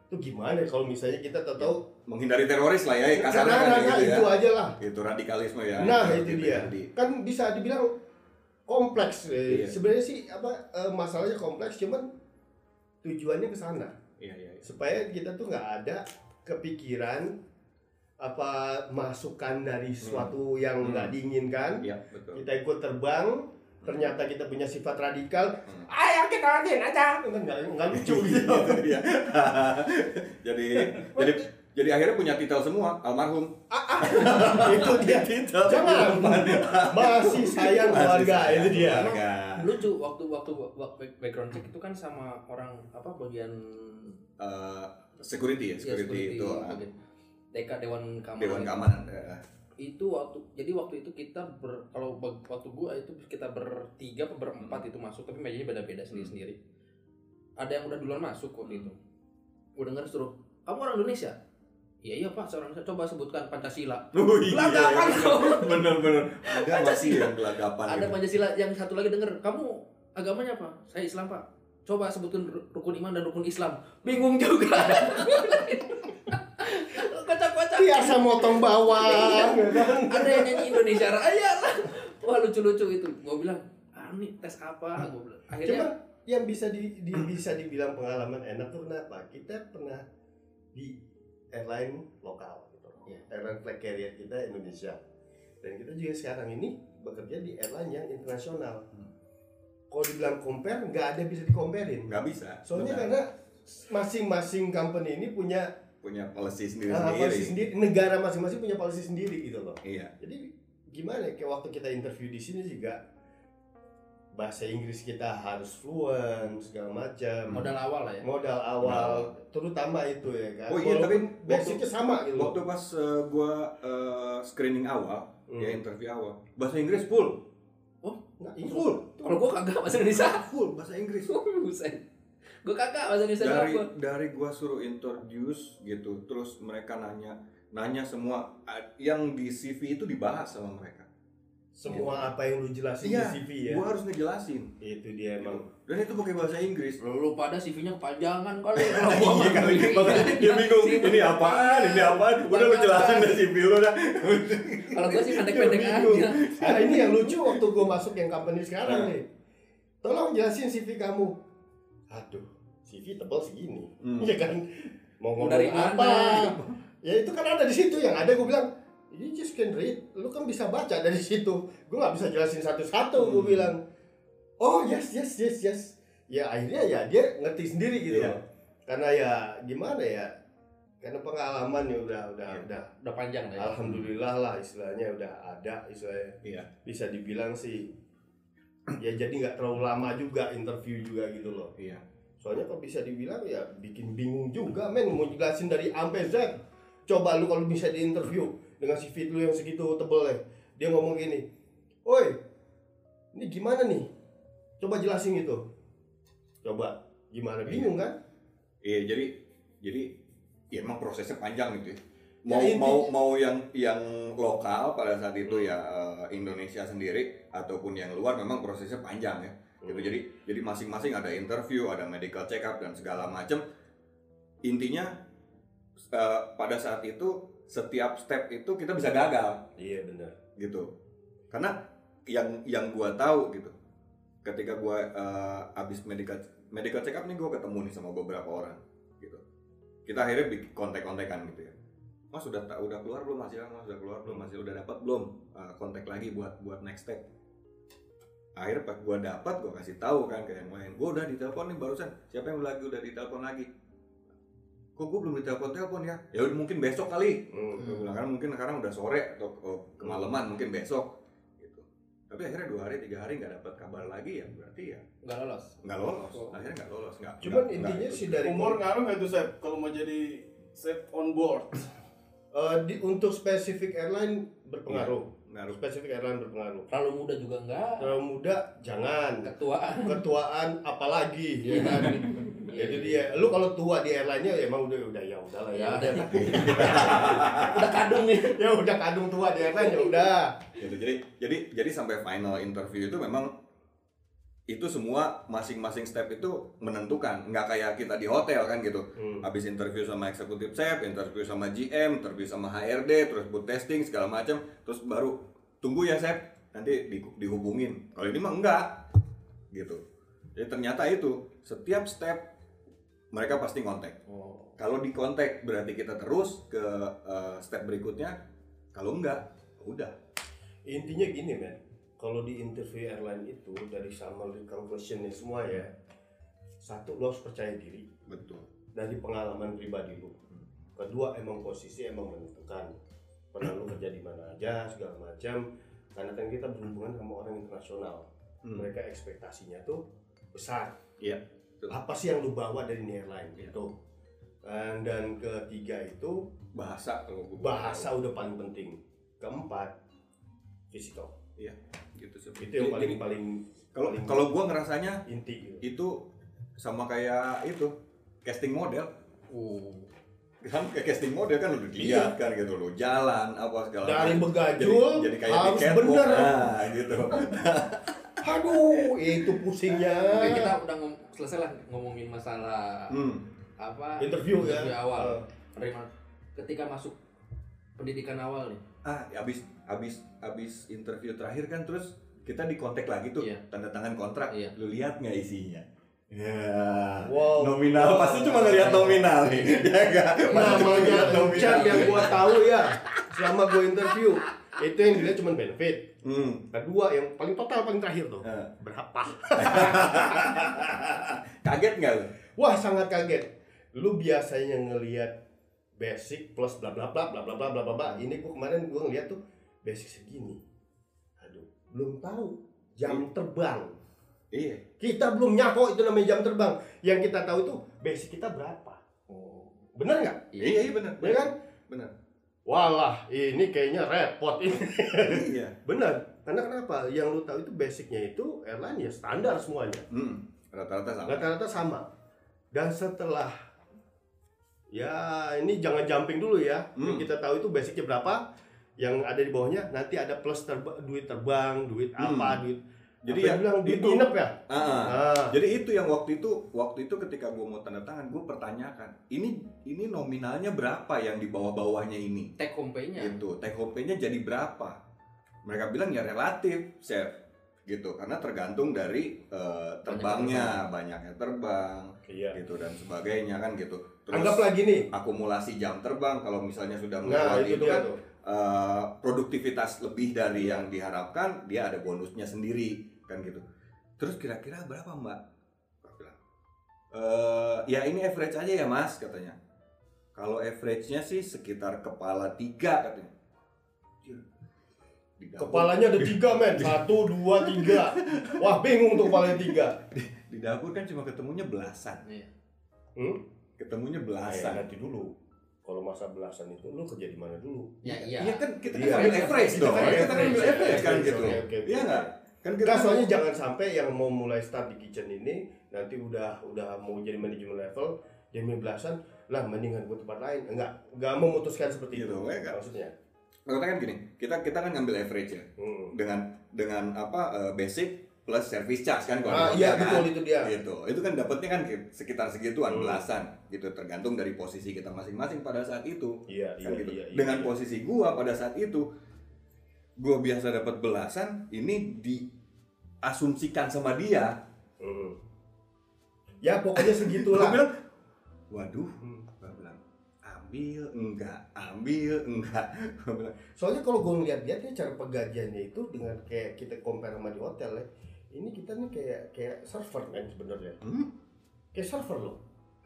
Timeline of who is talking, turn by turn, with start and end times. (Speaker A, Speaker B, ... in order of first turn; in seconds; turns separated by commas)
Speaker A: 0.1-1.8, Speaker B: 1.6-6.9, Speaker A: 3.1-4.8, Speaker A: 5.8-7.9, Speaker A: 8.7-12.1, Speaker B: 9.5-9.8, Speaker A: 13.0-13.9, Speaker B: 14.2-14.7, Speaker A: 14.6-17.3, Speaker A: 18.2-28.9, Speaker B: 20.0-21.2, Speaker B: 21.8-22.4, Speaker B: 23.8-24.1, Speaker B: 27.9-39.8, Speaker A: 30.9-31.4, Speaker A: 33.7-39.1, Speaker C: 38.9-44.2, Speaker B: 44.4-46.8, Speaker C: 45.8-47.0, Speaker C: 47.5-48.9, Speaker B: 48.4-49.4, Speaker C: 49.8-56.6, Speaker C: 57.6-59.0, Speaker B: 58.6-58.9, Speaker C: 59.8-61.4, Speaker C: 62.0-85.9, Speaker B: 64.1-68.2, Speaker A: 77.8-81.0, Speaker A: 85.6-90.0, Speaker A: 91.5-95.0, Speaker A: 95.6-98.8, Speaker A: 99.9-105.7, Speaker B: 102.1-103.1, Speaker B: 106.0-107.5, Speaker A: 106.9-113.0, Speaker B: 109.8-110.1, Speaker A: 114.3-117.7, Speaker C: 117.5-118.3, Speaker A: 118.2-122.6, Speaker B: 118.8-119.3, Speaker B: 120.7-127.4, Speaker A: 125.5-125.8, Speaker A: 128.4-129.4, Speaker B: 128.6-129.0, Speaker C: 129.2-130.5, Speaker B: 130.1-131.3, Speaker C: 131.3-132.0, Speaker C: 132.6-133.9, Speaker B: 133.4-141.1, Speaker A: 141.7-143.8, Speaker B: 141.9-142.3, Speaker B: 143.0-144.7, Speaker A: 144.8-145.7, Speaker B: 145.4-147.0, Speaker C: 147.0-153.4, Speaker B: 148.8-157.8, Speaker C: 154.9-156.5, Speaker A: 156.6-159.3, Speaker B: 158.9-159.1, Speaker A: 160.0-161.4, Speaker A: 162.1-173.8, Speaker B: 164.0-164.3, Speaker C: 165.4-166.5, Speaker B: 166.4-166.8, Speaker B: 173.2-173.7, Speaker A: 174.6-180.3, Speaker B: 178.1-178.4, Speaker A: 181.0-182.9, Speaker C: 183.0-183.8, Speaker A: 183.6-187.9, Speaker B: 186.4-186.7, Speaker A: 189.0-191.7, Speaker B: 191.8-192.0, Speaker A: 192.4-201.4, Speaker A: 202.1-202.4, Speaker A: 203.3-204.1, Speaker A: 204.8-205.6, Speaker A: 206.6-208.1, Speaker B: 207.7-207.9, Speaker B: 208.8-210.1, Speaker B: 210.7-223.6, Speaker A: 212.5-213.1, Speaker A: 215.5-215.7, Speaker A: 219.8-220.2, Speaker B: 224.6-225.2, Speaker B: 226.1-229.6, Speaker A: 229.8-230.3, Speaker B: 230.6-230.9, Speaker B: 232.3-233.7, Speaker B: 234.4-239.4, Speaker B: 240.1-241.7, Speaker B: 242.3-247.2, Speaker B: 248.6-253.7, Speaker B: 255.0-265.0, Speaker A: 257.5-257.9, Speaker C: 265.2-266.6, Speaker B: 265.8-268.4, Speaker A: 267.4-268.8, Speaker D: 268.4-271.9, Speaker A: 272.5-276.9, Speaker B: 274.9-275.8, Speaker C: 276.9-278.2, Speaker A: 278.0-279.5, Speaker C: 279.4-280.2, Speaker A: 280.0-290.5, Speaker C: 281.6-283.3, Speaker C: 285.7-288.6, Speaker B: 286.3-287.9, Speaker C: 289.7-290.2, Speaker B: 290.8-293.5, Speaker B: 294.7-309.1, Speaker A: 299.2-299.5, Speaker B: 309.7-310.0, Speaker B: 310.6-312.5, Speaker B: 313.3-314.2, Speaker C: 314.3-314.7, Speaker B: 314.8-318.4, Speaker B: 318.9-320.1, Speaker A: 320.9-325.9, Speaker A: 326.8-328.1, Speaker B: 328.3-328.7, Speaker A: 328.9-330.4, Speaker A: 331.0-332.9, Speaker A: 333.5-335.6, Speaker A: 336.1-340.0, Speaker B: 338.6-338.9, Speaker A: 340.5-340.9, Speaker B: 341.2-342.0, Speaker A: 341.9-343.9, Speaker A: 344.6-346.4, Speaker B: 346.7-348.1, Speaker A: 347.6-349.9, Speaker A: 350.9-351.3, Speaker B: 351.6-353.2, Speaker A: 352.6-354.5, Speaker B: 353.9-355.2, Speaker A: 355.3-355.8, Speaker B: 355.8-356.2, Speaker B: 356.8-357.9, Speaker B: 358.4-359.1, Speaker C: 359.5-360.1, Speaker B: 360.6-369.4, Speaker A: 362.0-362.4, Speaker A: 364.0-366.7, Speaker A: 368.4-370.7, Speaker C: 370.3-373.1, Speaker B: 373.1-373.5, Speaker C: 373.8-377.2, Speaker A: 374.2-375.4, Speaker C: 378.0-378.8, Speaker B: 379.0-393.2, Speaker A: 387.2-389.3, Speaker C: 388.7-389.8, Speaker C: 390.4-392.4, Speaker A: 390.5-396.1, Speaker B: 396.2-396.7, Speaker A: 396.7-400.8, Speaker B: 398.4-398.7, Speaker B: 399.6-402.3, Speaker A: 402.6-405.3, Speaker A: 406.0-410.6, Speaker A: 411.4-414.0, Speaker B: 414.5-414.8, Speaker A: 415.0-420.5, Speaker C: 420.5-420.8, Speaker B: 420.6-422.1, Speaker A: 421.2-421.5, Speaker A: 422.7-430.1, Speaker B: 425.2-425.8, Speaker B: 430.1-431.4, Speaker A: 431.3-432.1, Speaker A: 432.7-433.5, Speaker A: 434.9-438.4, Speaker B: 437.0-437.3, Speaker A: 439.0-445.6, Speaker B: 442.2-442.6, Speaker B: 443.2-452.5, Speaker C: 452.6-453.4, Speaker B: 453.2-455.0, Speaker B: 455.6-457.4, Speaker B: 457.9-473.6, Speaker C: 460.1-460.8, Speaker A: 462.3-462.6, Speaker A: 464.3-465.1, Speaker A: 467.2-468.2, Speaker A: 470.6-470.8, Speaker B: 474.2-475.4, Speaker B: 476.0-476.4, Speaker B: 477.1-479.6, Speaker B: 480.4-483.3, Speaker B: 485.4-488.6, Speaker A: 485.6-490.0, Speaker B: 489.3-492.2, Speaker C: 492.2-492.5, Speaker B: 493.8-494.8, Speaker A: 494.4-495.3, Speaker A: 495.9-498.1, Speaker C: 498.0-501.5, Speaker B: 498.3-503.2, Speaker A: 498.9-502.3, Speaker A: 502.8-513.1, Speaker B: 512.1-512.8, Speaker B: 513.7-529.1, Speaker A: 515.8-516.1, Speaker A: 519.5-520.7, Speaker A: 522.9-523.2, Speaker A: 526.5-527.7, Speaker B: 530.2-532.5, Speaker B: 533.2-534.5, Speaker A: 535.0-535.4, Speaker A: 536.6-537.8, Speaker B: 537.0-537.9, Speaker B: 538.7-543.6, Speaker A: 539.2-539.5, Speaker A: 543.8-551.0, Speaker B: 551.0-551.3, Speaker A: 551.9-552.6